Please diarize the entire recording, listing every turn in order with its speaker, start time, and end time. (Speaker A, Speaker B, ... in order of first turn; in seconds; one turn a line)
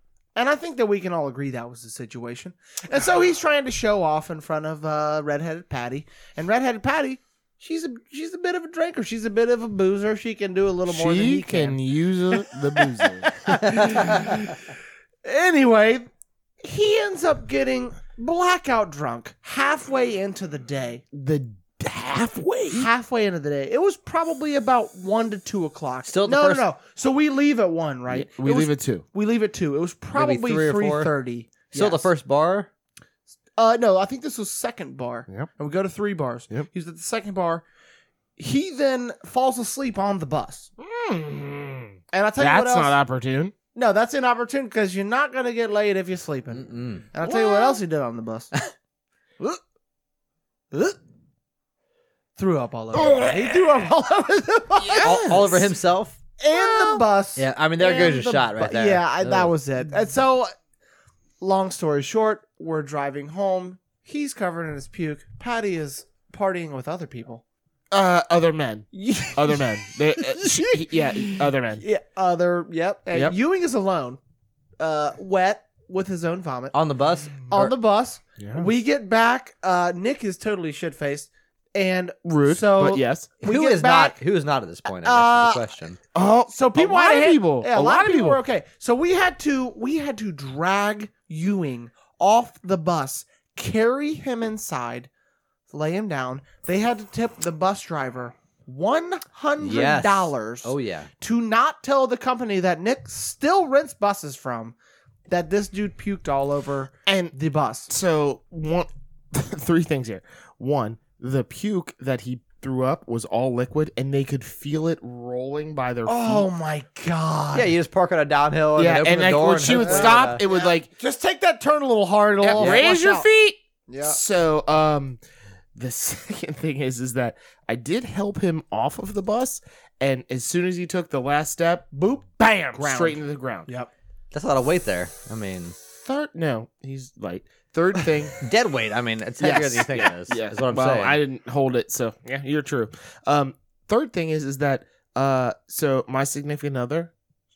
Speaker A: 0.3-11.8
Speaker B: 10.9-14.3
Speaker A: 12.3-16.1
Speaker A: 16.6-21.0
Speaker B: 21.1-22.9
Speaker A: 22.7-32.1
Speaker C: 26.1-26.6
Speaker B: 28.1-29.0
Speaker C: 30.1-31.1
Speaker C: 31.7-32.7
Speaker A: 33.6-37.6
Speaker A: 38.4-40.7
Speaker B: 40.8-43.5
Speaker A: 42.1-43.0
Speaker A: 43.7-48.5
Speaker C: 46.5-47.1
Speaker B: 47.2-47.8
Speaker A: 50.7-51.0
Speaker A: 52.4-55.6
Speaker B: 52.9-53.6
Speaker B: 54.8-55.6
Speaker C: 55.0-56.2
Speaker A: 56.4-60.5
Speaker B: 56.5-57.0
Speaker C: 57.4-59.5
Speaker A: 61.4-67.4
Speaker B: 67.9-71.8
Speaker A: 68.9-74.2
Speaker A: 74.8-76.7
Speaker C: 76.7-77.7
Speaker A: 77.5-84.2
Speaker B: 78.4-78.7
Speaker B: 82.2-83.3
Speaker C: 83.4-86.0
Speaker A: 84.8-85.6
Speaker B: 86.1-88.4
Speaker A: 86.5-95.1
Speaker A: 95.7-104.7
Speaker C: 99.6-101.1
Speaker A: 105.3-107.9
Speaker B: 107.0-107.3
Speaker B: 107.9-116.5
Speaker A: 116.0-117.7
Speaker C: 117.5-120.4
Speaker B: 118.8-120.9
Speaker A: 119.7-123.2
Speaker B: 122.4-125.2
Speaker C: 122.6-122.8
Speaker A: 123.9-124.2
Speaker B: 125.7-133.7
Speaker A: 131.9-133.9
Speaker C: 134.3-135.8
Speaker B: 136.0-138.4
Speaker C: 138.4-141.2
Speaker B: 139.4-147.1